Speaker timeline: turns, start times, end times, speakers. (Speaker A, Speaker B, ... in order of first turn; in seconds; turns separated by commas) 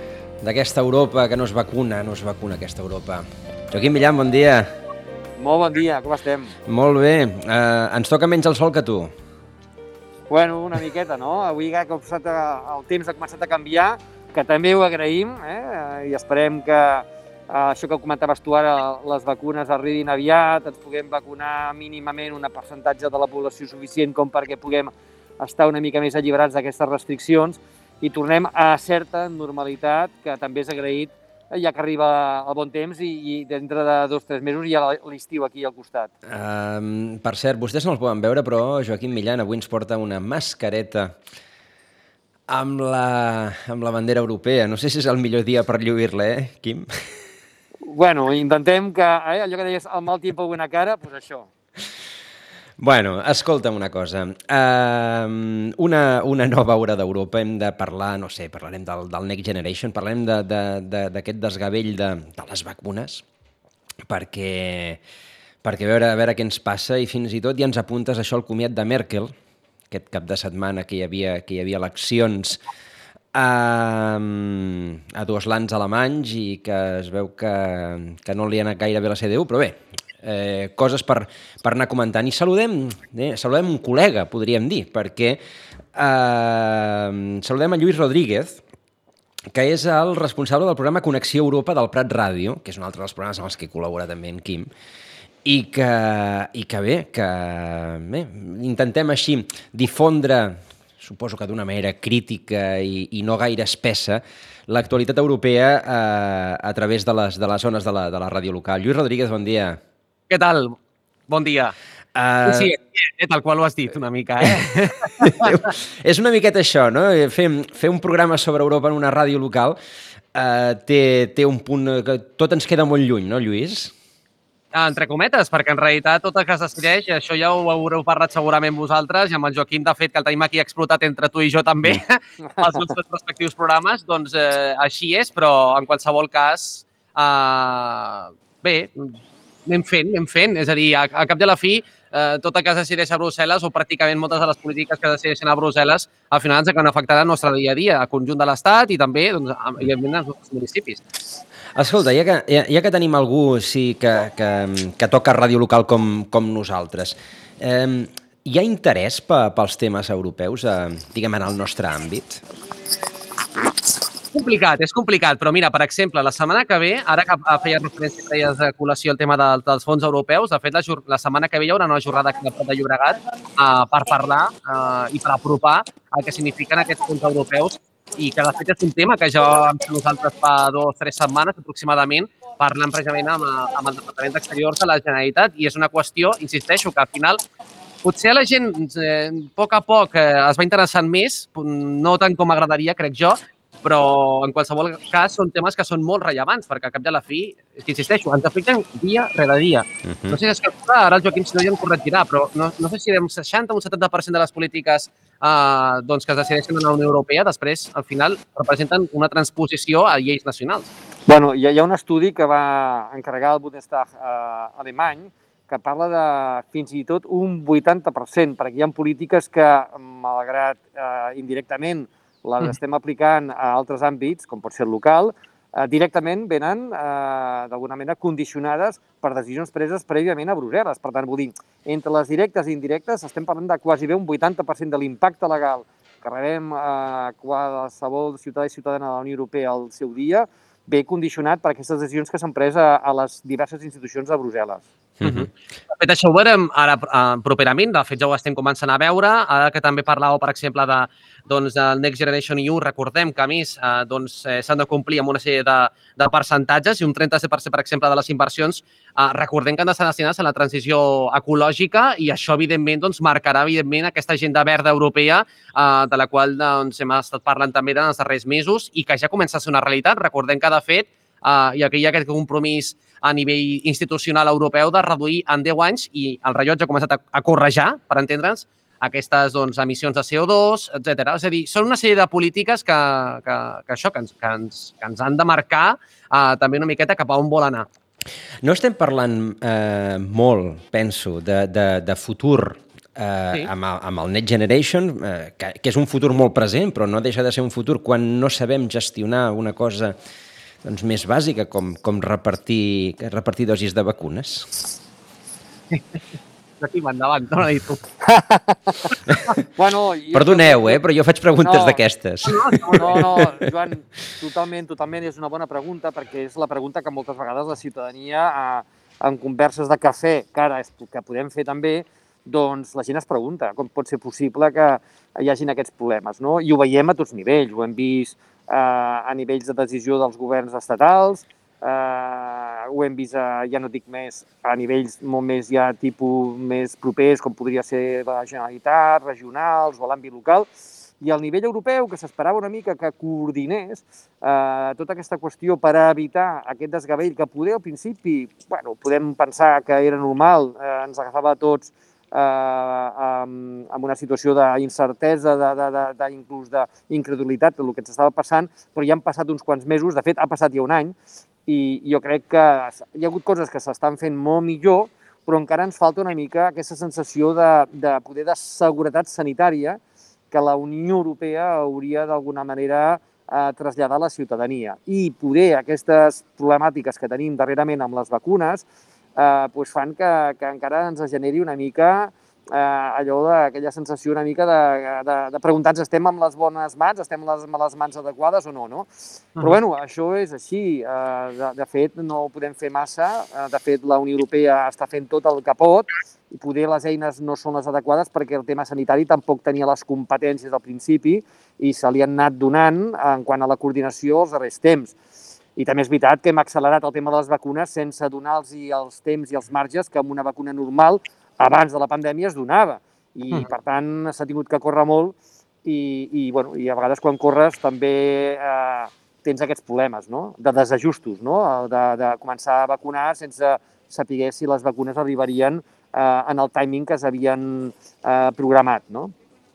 Speaker A: 0.4-4.7, Speaker B: 5.4-6.5, Speaker A: 6.7-9.1, Speaker B: 10.3-36.1, Speaker A: 36.3-41.1, Speaker A: 42.5-47.2, Speaker B: 47.9-51.5, Speaker A: 52.8-63.2, Speaker A: 64.0-65.0, Speaker A: 65.6-69.3, Speaker A: 69.9-72.6, Speaker A: 73.3-85.4, Speaker A: 85.9-88.6, Speaker A: 89.5-94.7, Speaker A: 95.4-109.8, Speaker C: 110.3-110.8, Speaker C: 111.3-111.7, Speaker A: 112.1-112.7, Speaker C: 112.4-115.5, Speaker A: 115.2-119.8, Speaker A: 120.3-123.9, Speaker C: 124.7-151.0, Speaker A: 151.7-162.4, Speaker C: 164.3-187.4, Speaker C: 188.0-210.9, Speaker A: 200.1-200.4, Speaker B: 211.3-244.8, Speaker A: 245.2-245.5, Speaker C: 245.2-287.9, Speaker A: 288.6-300.1, Speaker A: 300.8-304.7, Speaker C: 306.8-308.0, Speaker B: 308.2-309.0, Speaker B: 309.7-311.0, Speaker A: 310.3-313.4, Speaker B: 311.6-312.0, Speaker C: 312.4-313.2, Speaker B: 312.9-340.7, Speaker B: 341.2-361.1, Speaker B: 361.7-370.0, Speaker B: 370.5-378.8, Speaker B: 379.4-405.1, Speaker B: 405.8-429.3